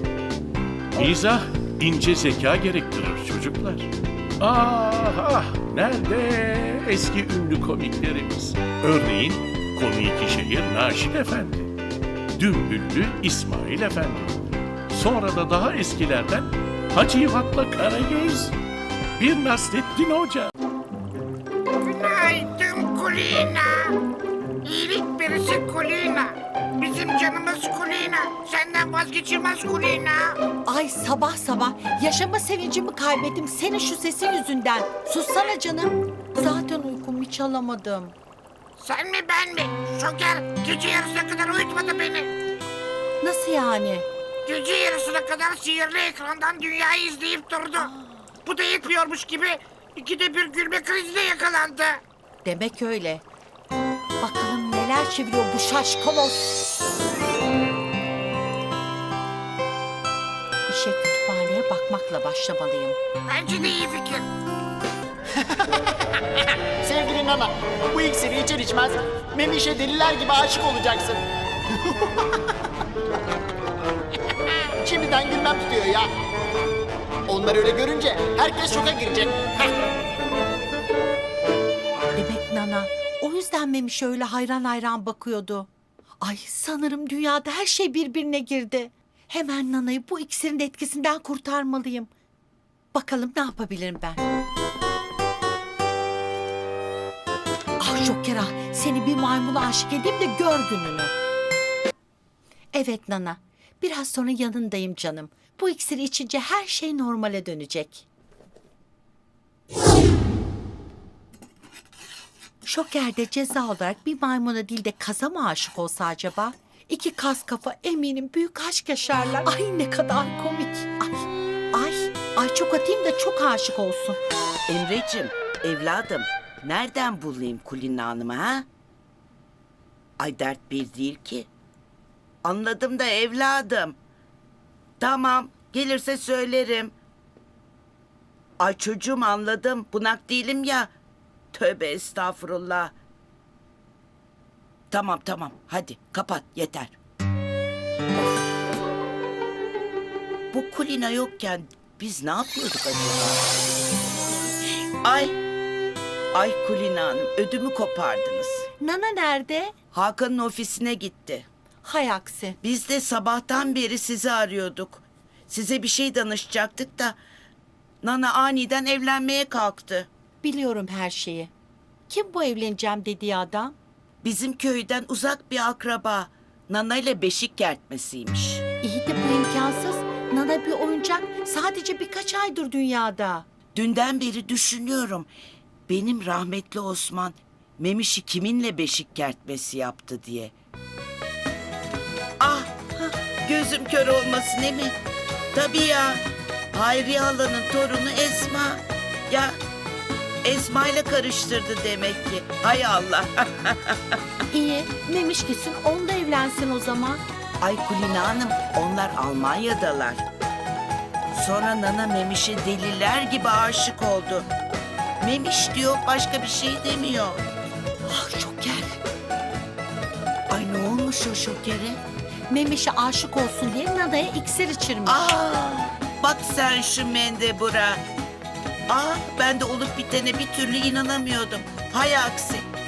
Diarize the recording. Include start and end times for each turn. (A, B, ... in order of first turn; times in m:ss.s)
0:01.0-0:11.7 A
0:12.4-0:18.6 A
0:19.2-0:20.5 A
0:21.8-0:23.9 B
0:24.6-0:30.4 B
0:30.6-0:38.1 C
0:38.8-0:42.3 B
0:43.2-0:44.1 C
0:44.5-0:47.9 B
0:48.4-0:52.0 B
0:52.4-0:53.2 C
0:54.2-0:56.6 C
1:00.7-1:03.0 C
1:03.3-1:04.2 B
1:06.8-1:11.2 D
1:11.8-1:12.4 D
1:14.8-1:16.1 D
1:17.3-1:19.7 D
1:22.1-1:25.7 C
1:26.2-1:32.1 C
1:32.9-1:34.2 C
1:37.8-1:41.1 C
1:42.7-1:48.1 C
1:52.6-2:04.2 C
2:04.7-2:08.7 E
2:10.2-2:11.5 E
2:12.4-2:14.0 E
2:15.0-2:16.9 E
2:18.6-2:20.9 E
2:21.5-2:22.9 E
2:24.9-2:27.0 E
2:30.5-2:33.5 E
2:35.0-2:35.4 E
2:36.3-2:38.6 E
2:38.8-2:39.7 C
2:39.9-2:41.5 E
2:41.8-2:42.6 C
2:42.6-2:47.2 E
2:48.0-2:50.1 E
2:50.4-2:51.5 C
2:52.1-2:53.8 C
2:54.2-2:58.6 E
2:58.8-3:03.5 C
3:03.8-3:05.3 E
3:05.9-3:10.5 E
3:12.4-3:15.0 E
3:15.5-3:16.2 E
3:16.7-3:19.6 E
3:20.4-3:24.2 E
3:24.5-3:27.2 C
3:27.6-3:30.2 E
3:31.3-3:34.5 E
3:35.2-3:37.5 E
3:38.1-3:39.0 C
3:40.5-3:42.0 E
3:42.5-3:45.2 C
3:45.1-3:48.0 E
3:48.9-3:52.7 E